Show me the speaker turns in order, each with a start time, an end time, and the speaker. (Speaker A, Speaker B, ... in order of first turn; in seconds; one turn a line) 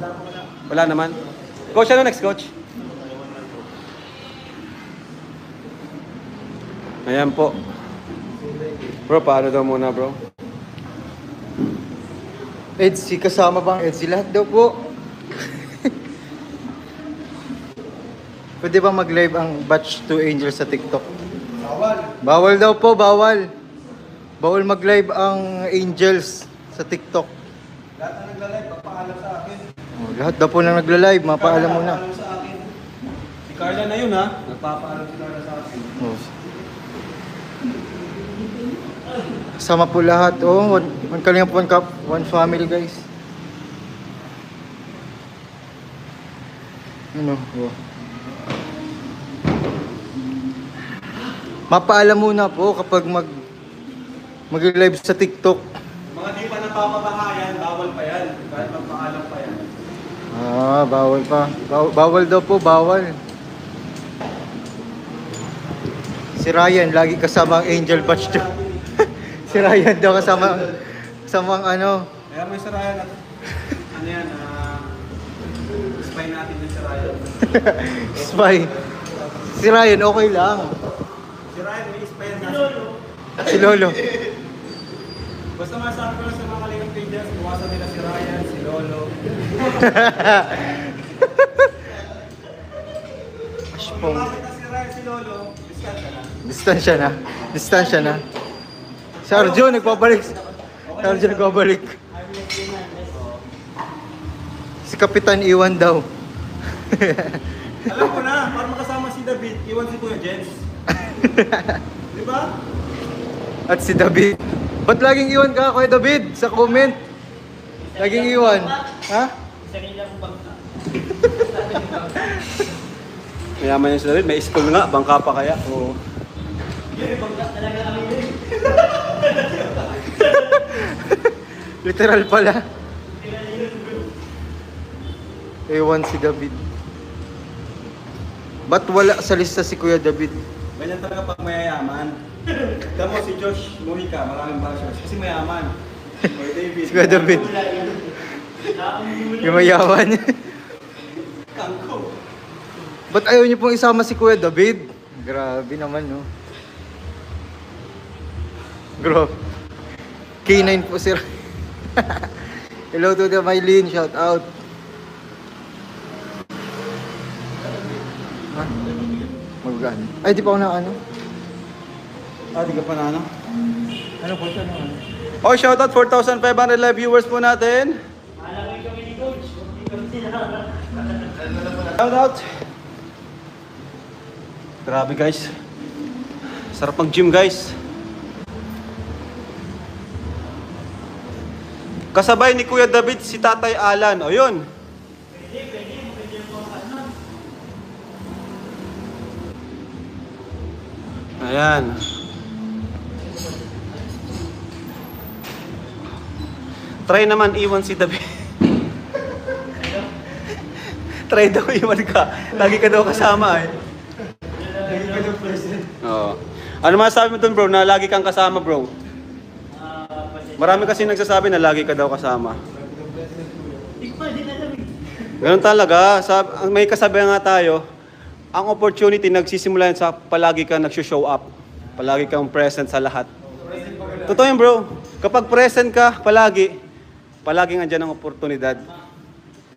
Speaker A: 0.7-1.2
Speaker A: 1.7-2.5
Speaker A: 7.1-7.6
Speaker A: 9.1-10.2
Speaker B: 12.8-14.9
Speaker B: 15.4-15.9
Speaker B: 18.6-21.1
Speaker A: 21.6-22.1
Speaker B: 22.2-23.5
Speaker B: 24.4-27.3
Speaker A: 28.0-29.6
Speaker B: 30.0-32.0
Speaker A: 31.3-32.7
Speaker A: 33.5-36.0
Speaker B: 36.0-36.3
Speaker B: 39.6-43.0
Speaker B: 47.1-47.8
Speaker B: 51.7-53.3
Speaker B: 54.5-55.6
Speaker A: 56.1-59.6
Speaker B: 60.3-63.2
Speaker B: 66.4-68.5
Speaker A: 67.4-68.9
Speaker B: 69.0-72.1
Speaker A: 69.5-69.8
Speaker A: 72.3-74.9
Speaker A: 75.8-77.6
Speaker B: 77.5-78.7
Speaker B: 79.5-80.8
Speaker A: 81.5-82.8
Speaker C: 82.3-83.0
Speaker B: 83.4-84.1
Speaker A: 85.6-90.4
Speaker B: 89.6-91.7
Speaker A: 93.7-96.3
Speaker B: 93.7-94.3
Speaker B: 96.4-98.2
Speaker B: 99.2-100.4
Speaker A: 99.3-100.0
Speaker C: 100.0-100.4
Speaker A: 100.8-101.7
Speaker B: 101.0-102.0
Speaker C: 102.1-103.2
Speaker A: 103.1-103.4
Speaker B: 104.8-106.1
Speaker B: 106.8-107.5
Speaker A: 107.8-110.6
Speaker B: 110.9-111.8
Speaker A: 112.1-112.5
Speaker B: 113.7-117.0
Speaker C: 117.8-118.9
Speaker B: 118.0-119.3
Speaker C: 119.6-122.3
Speaker B: 122.2-122.6
Speaker A: 123.6-126.0
Speaker C: 126.9-130.9
Speaker B: 130.5-132.7
Speaker C: 133.2-134.1
Speaker B: 135.7-136.6
Speaker B: 138.7-140.4
Speaker A: 140.8-142.2
Speaker A: 142.8-147.5
Speaker B: 146.9-147.6
Speaker C: 146.9-149.9
Speaker B: 149.3-150.5
Speaker A: 151.5-152.1
Speaker B: 153.1-156.3
Speaker B: 159.0-159.4
Speaker B: 160.4-161.3
Speaker B: 161.9-162.3
Speaker B: 162.9-164.5
Speaker B: 169.6-171.0
Speaker A: 172.6-173.3
Speaker B: 174.2-175.0
Speaker A: 175.4-178.0
Speaker C: 178.4-181.5
Speaker A: 181.4-182.5
Speaker A: 184.9-185.5
Speaker A: 186.7-187.8
Speaker A: 192.1-194.6
Speaker C: 195.3-197.1
Speaker A: 201.4-202.0
Speaker A: 207.1-208.4
Speaker C: 209.7-210.1
Speaker A: 210.4-213.8
Speaker C: 214.5-215.7
Speaker B: 215.1-215.9
Speaker A: 216.0-218.9
Speaker C: 219.7-221.2
Speaker A: 220.6-222.6
Speaker C: 224.0-225.0
Speaker A: 225.4-227.8
Speaker A: 228.5-233.3
Speaker C: 233.6-234.3
Speaker A: 234.2-236.8
Speaker A: 237.4-238.9